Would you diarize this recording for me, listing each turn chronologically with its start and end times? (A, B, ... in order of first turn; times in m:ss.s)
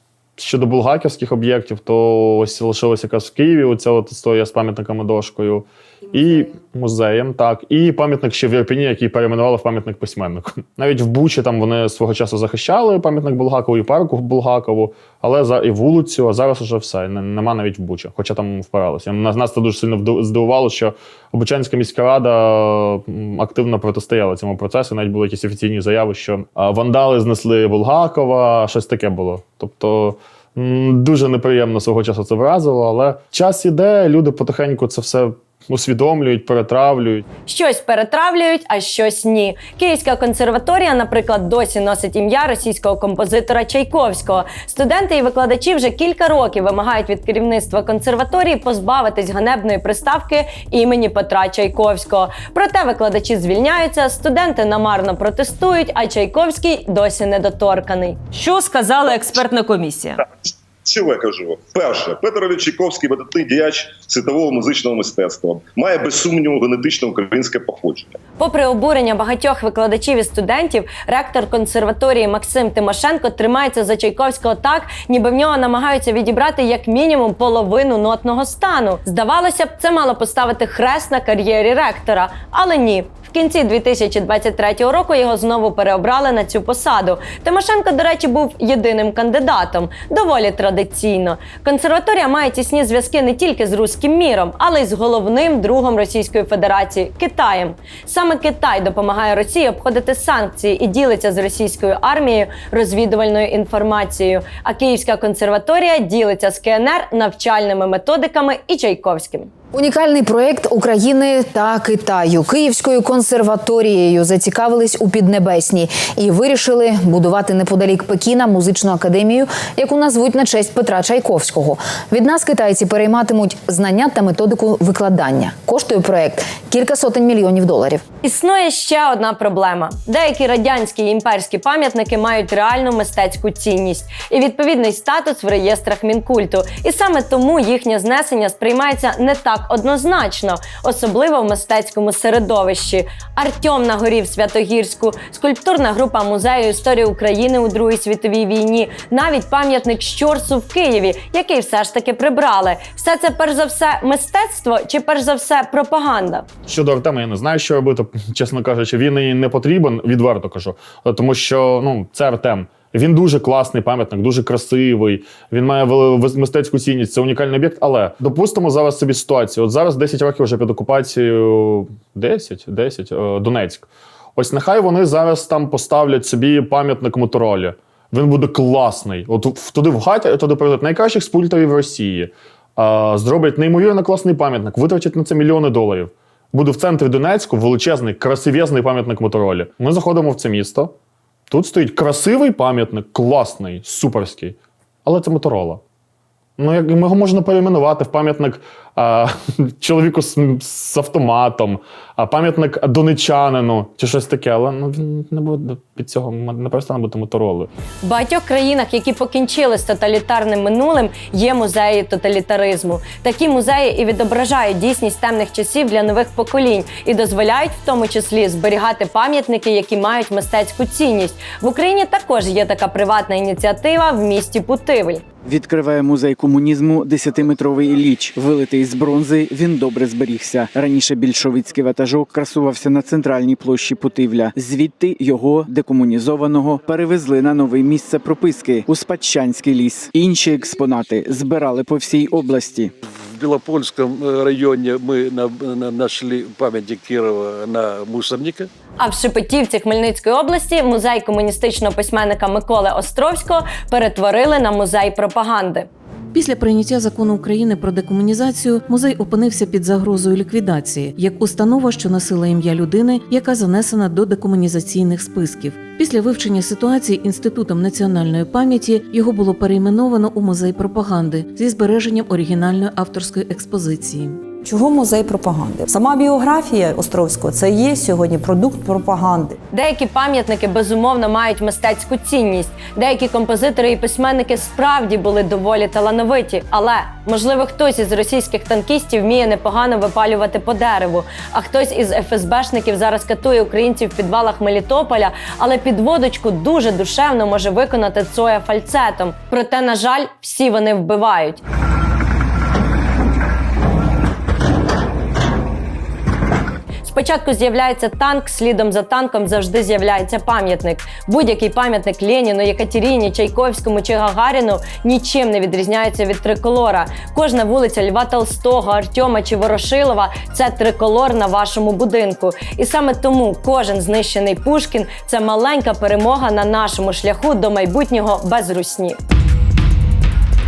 0:00.4-0:37.2 A
0:37.5-1:00.2 B
1:00.8-1:08.2 C
1:08.4-1:49.5 B
1:49.7-2:08.0 D
2:08.2-2:36.4 B
2:36.7-3:10.9 A
3:11.5-3:15.8 A
3:16.6-3:27.7 A
3:28.0-3:45.2 B
3:45.5-4:02.9 E
4:03.4-4:08.7 F
4:09.0-4:15.9 B
4:16.3-4:34.5 G
4:34.7-4:39.5 H
4:39.7-5:01.6 B
5:07.0-5:29.2 B